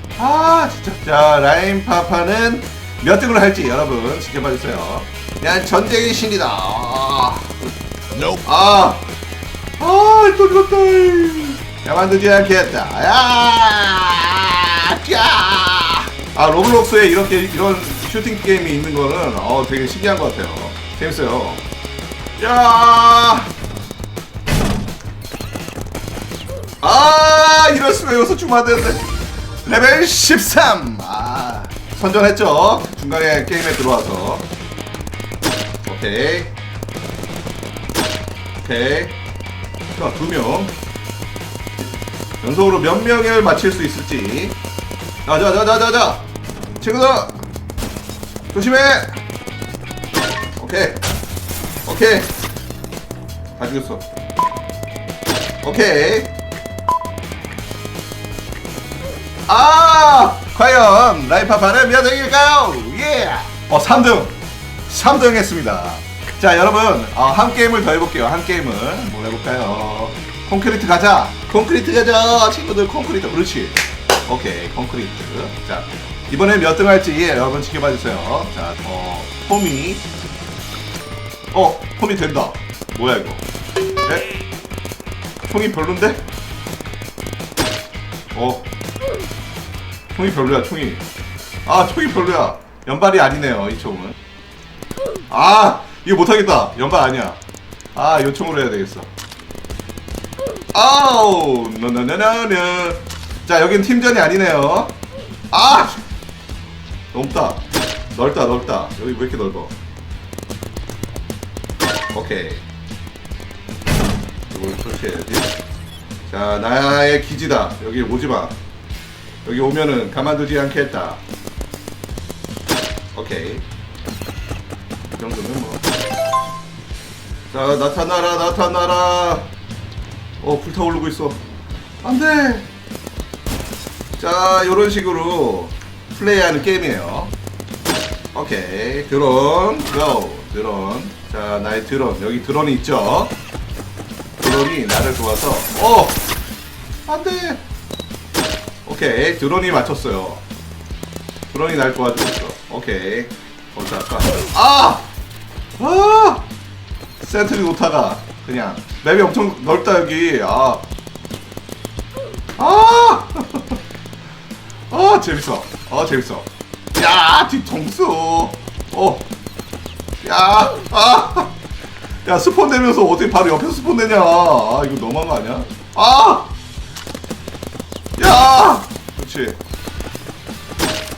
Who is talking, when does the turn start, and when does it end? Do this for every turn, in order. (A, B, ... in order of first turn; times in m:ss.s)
0:00.2-0:07.7 A
0:08.4-0:09.0 A
0:09.8-0:21.6 A
0:22.4-0:23.5 A
0:26.8-0:29.0 A
0:29.6-0:34.5 A
0:35.8-0:36.5 A
0:38.6-0:39.2 A
0:39.9-0:40.7 A
0:42.4-0:44.6 A
0:45.2-0:46.2 A
0:46.8-0:47.4 A
0:48.5-0:49.2 A
0:50.6-0:51.0 A
0:51.8-0:52.3 A
0:53.6-0:54.0 A
0:55.6-0:56.3 A
0:59.5-1:04.4 A
1:04.9-1:20.0 A
1:21.5-1:23.4 A
1:24.0-1:24.3 A
1:25.4-1:26.2 A
1:28.3-1:28.7 A
1:30.1-1:31.0 A
1:31.6-1:34.1 A
1:35.3-1:37.4 A
1:37.9-1:39.1 A
1:40.7-1:44.9 A
1:45.5-1:46.0 A
1:47.1-1:49.7 A
1:52.1-1:52.6 A
1:54.5-1:55.5 A
1:56.2-1:58.6 A
1:59.4-2:01.2 A
2:03.1-2:03.6 A
2:05.2-2:05.8 A
2:07.5-2:09.5 A
2:10.4-2:11.4 A
2:12.0-2:12.7 A
2:14.2-2:17.3 A
2:18.3-2:23.3 A
2:24.4-2:26.2 A
2:27.0-2:27.6 A
2:28.8-2:30.4 A
2:31.5-2:35.1 A
2:35.8-2:36.5 A
2:37.2-2:40.8 A
2:42.6-2:43.8 A
2:44.9-2:49.3 A
2:50.2-2:51.6 A
2:52.2-2:56.5 A
2:58.2-2:59.6 A